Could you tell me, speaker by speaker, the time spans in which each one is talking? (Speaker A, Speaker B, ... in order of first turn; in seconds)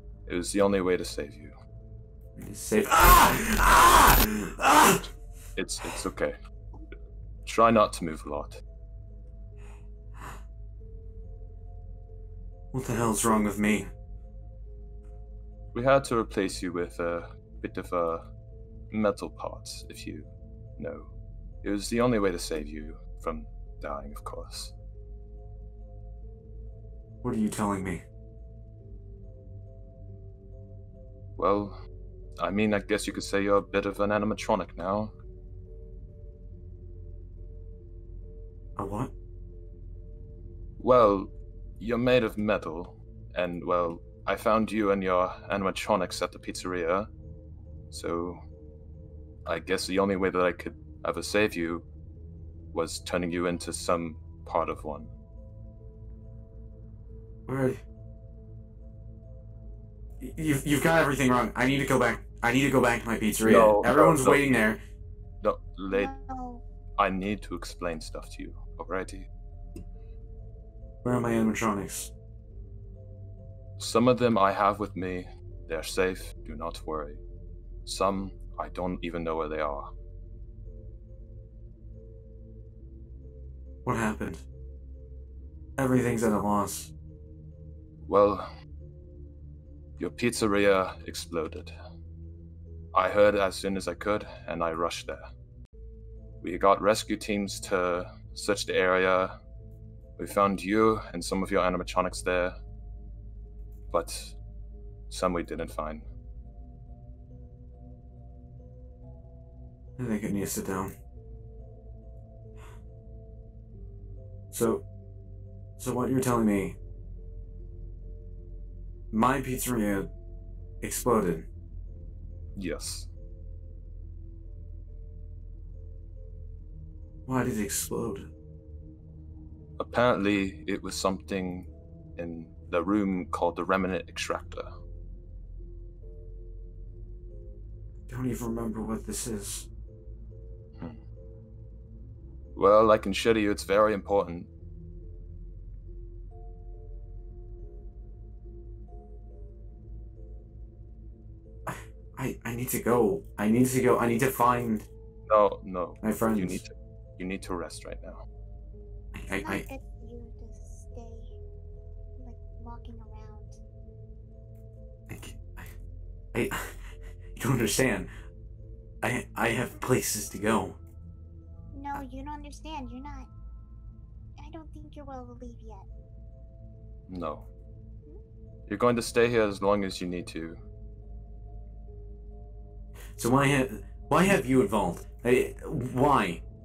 Speaker A: 0.3-1.5, 5.6-6.3, 7.5-8.6, 15.7-18.3, 18.9-21.1, 21.6-24.8, 31.4-31.8, 32.4-35.1, 40.8-47.1, 47.9-48.4, 49.5-51.9, 52.7-55.1, 63.4-64.6, 65.4-66.1, 67.0-69.3, 73.8-77.2, 77.9-79.9, 88.0-88.5, 90.0-91.7, 92.9-95.3, 96.4-99.3, 100.2-102.6, 103.9-104.4, 105.1-106.1, 122.6-123.1, 129.8-134.7, 142.6-144.5, 155.3-158.2, 177.1-177.5, 178.7-180.6
Speaker B: 2.4-5.1, 12.7-13.9, 27.2-28.0, 38.8-39.1, 57.5-57.8, 60.2-64.8, 71.0-72.1, 83.8-84.5, 85.8-86.9, 110.0-110.9, 114.5-114.8, 115.8-116.8, 119.1-120.1, 120.8-121.5, 127.3-128.3, 138.1-139.7, 151.7-154.9, 156.0-156.6, 159.1-159.7, 165.1-165.7, 166.3-166.7, 167.4-168.1, 169.0-170.8, 183.2-186.4
Speaker C: 65.9-66.6, 159.3-161.3, 162.2-163.6, 171.7-173.3, 174.4-175.9